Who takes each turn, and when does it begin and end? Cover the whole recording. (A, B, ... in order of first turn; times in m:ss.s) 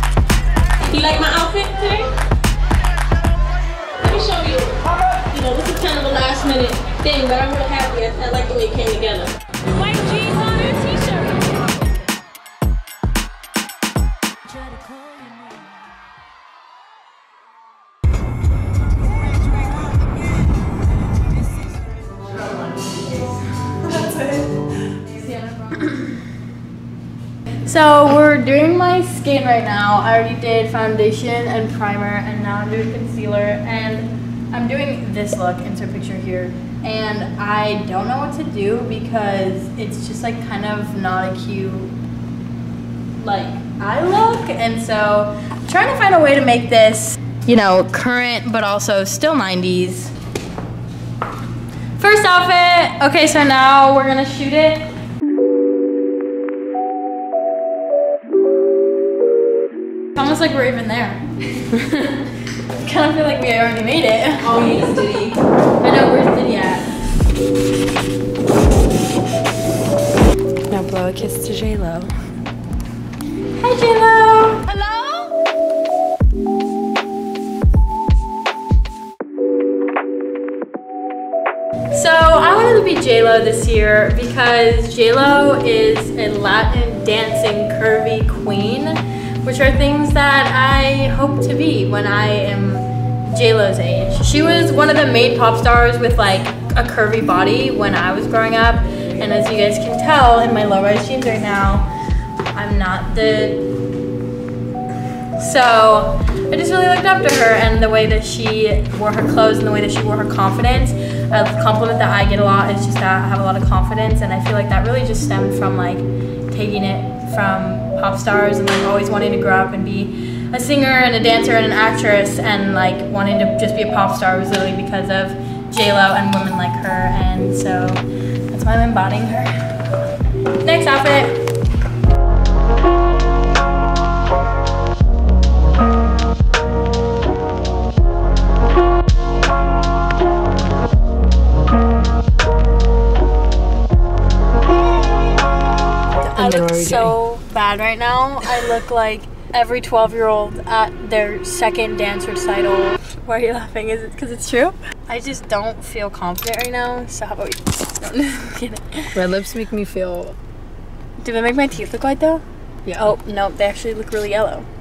0:00.8-0:02.1 A
0:04.0-0:11.4 A
0:22.4-0:26.2 B
0:27.6-0:41.9 B
0:43.2-0:50.2 B
0:52.0-0:54.9 B
1:00.2-1:01.2 B
1:02.7-1:04.8 B
1:04.6-1:05.3 C
1:05.8-1:06.9 B
1:10.7-1:12.1 C
1:13.6-1:15.3 B
1:21.9-1:41.9 B
1:42.6-1:43.7 B
1:45.4-2:09.7 B
2:10.6-2:11.4 B
2:26.2-2:39.1 B
2:26.4-2:27.2 C
2:39.2-2:40.4 C
2:41.2-2:42.4 B
2:42.9-2:43.1 C
2:43.0-2:44.7 B